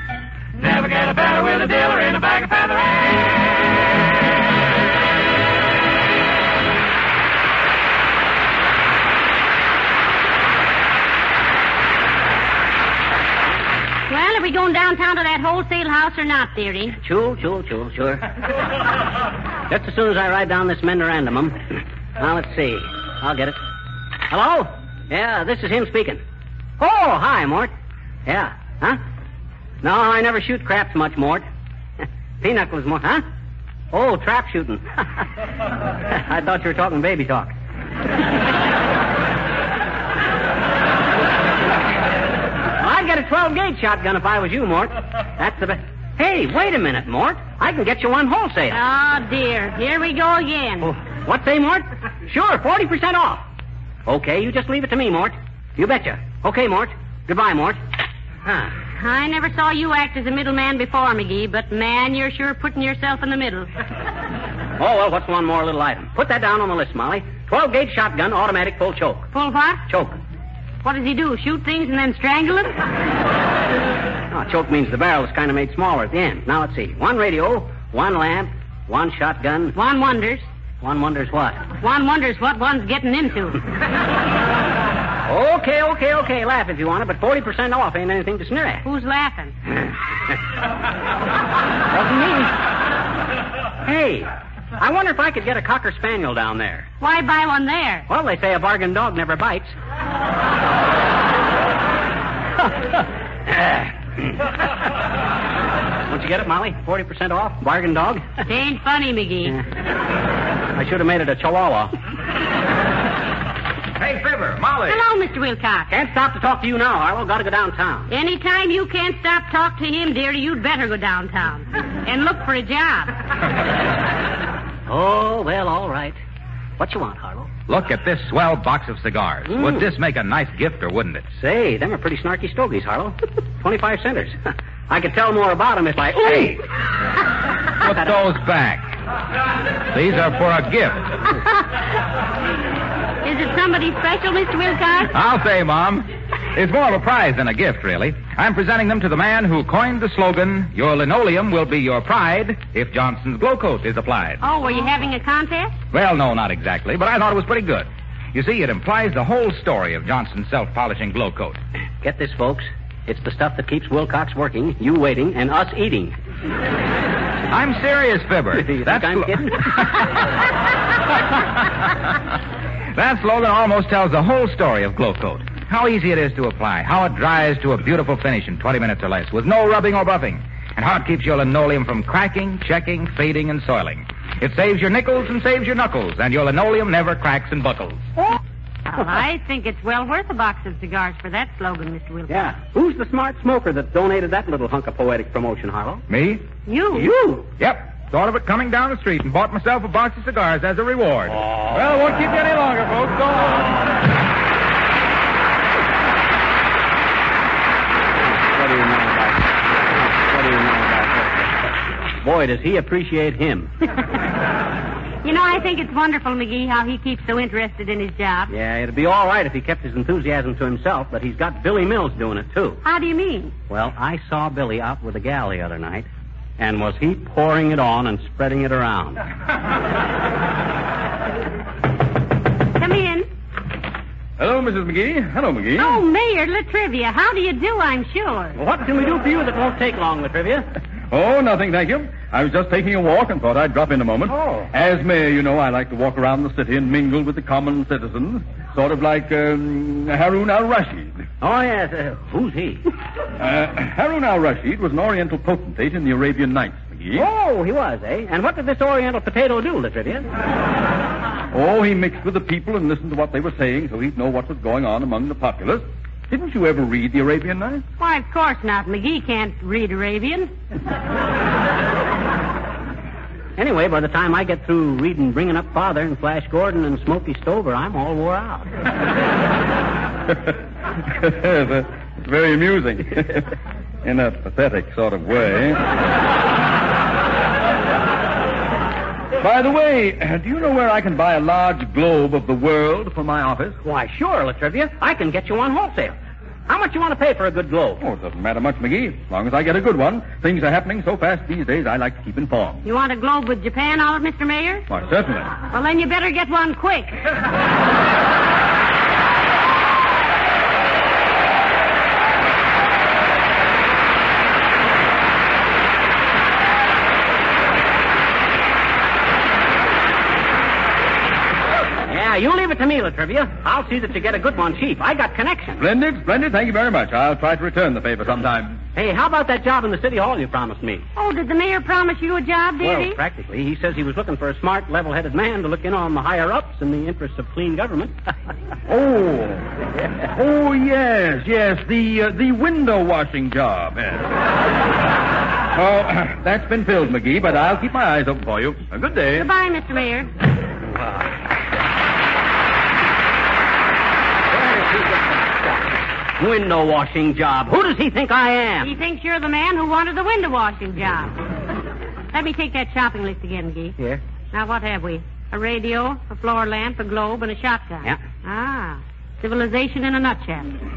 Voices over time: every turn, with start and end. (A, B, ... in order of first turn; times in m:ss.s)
0:00.6-0:03.6 A
0:14.1-0:17.0 B
0:17.0-0:18.3 C
0:19.7-0:23.6 C
0:24.3-0:26.2 C
0:26.8-0:27.7 C
0:28.3-0:29.0 C
0:29.8-0:31.4 C
0:32.4-0:33.2 C
0:33.9-0:35.1 C
0:36.1-0:37.5 C
0:42.8-0:48.8 C
0:48.7-0:50.9 B
0:50.8-0:53.4 C
0:54.1-0:57.8 C
0:58.4-0:58.7 C
0:58.9-1:03.7 B
1:04.8-1:09.3 C
1:09.3-1:09.8 B
1:09.9-1:10.2 C
1:10.8-1:12.8 B
1:14.3-1:19.8 C
1:19.8-1:20.5 B
1:20.8-1:21.7 C
1:21.8-1:23.6 B
1:25.3-1:28.8 C
1:28.8-1:29.5 B
1:31.9-1:32.5 C
1:33.8-1:36.9 C
1:37.0-1:38.1 B
1:38.1-1:39.7 C
1:43.5-1:44.2 C
1:46.1-1:48.3 C
1:48.4-1:49.6 B
1:50.7-1:51.9 C
1:54.0-1:55.0 D
1:54.9-1:55.9 B
1:55.9-1:58.1 C
1:58.1-2:03.2 B
2:04.9-2:06.2 C
2:06.8-2:07.5 C
2:07.7-2:11.3 D
2:09.5-2:09.8 C
2:11.4-2:14.4 C
2:14.9-2:16.6 C
2:17.8-2:18.9 D
2:19.9-2:21.3 D
2:23.2-2:25.1 B
2:25.1-2:34.4 D
2:34.4-2:35.7 B
2:35.9-2:41.6 D
2:42.0-2:46.2 C
2:47.5-2:50.1 D
2:48.6-2:50.0 C
2:53.0-3:08.1 D
3:08.9-3:12.5 B
3:12.3-3:16.0 C
3:16.1-3:16.4 D
3:16.7-3:17.1 B
3:16.9-3:17.5 C
3:17.6-3:21.4 D
3:21.7-3:23.8 E
3:28.3-3:31.5 C
3:32.2-3:33.7 C
3:35.2-3:38.5 B
3:38.5-3:42.8 C
3:42.8-3:43.5 B
3:43.7-3:46.1 C
3:46.6-3:49.2 C
3:52.8-3:53.3 B
3:54.4-3:56.0 E
3:55.8-3:58.6 B
3:58.6-4:00.7 C
4:01.1-4:11.2 E
4:04.3-4:04.7 C
4:11.4-4:12.9 C
4:13.4-4:17.3 E
4:17.2-4:20.3 C
4:21.5-4:27.8 E
4:28.0-4:30.5 B
4:33.6-4:38.7 C
4:41.1-4:43.5 E
4:44.0-4:45.8 E
4:49.4-4:53.8 E
4:53.8-4:56.2 C
4:56.7-4:58.0 C
4:58.0-5:02.8 E
5:02.8-5:04.9 B
5:04.9-5:05.5 E
5:05.7-5:07.2 B
5:22.1-5:25.8 C
5:25.8-5:28.8 E
5:29.0-5:31.0 C
5:31.2-5:33.2 B
5:32.8-5:38.1 C
5:38.9-5:44.4 E
5:45.7-5:49.5 E
5:49.4-5:50.3 B
5:54.5-5:58.9 C
5:58.8-6:01.4 B
6:02.3-6:04.0 B
6:04.5-6:10.8 B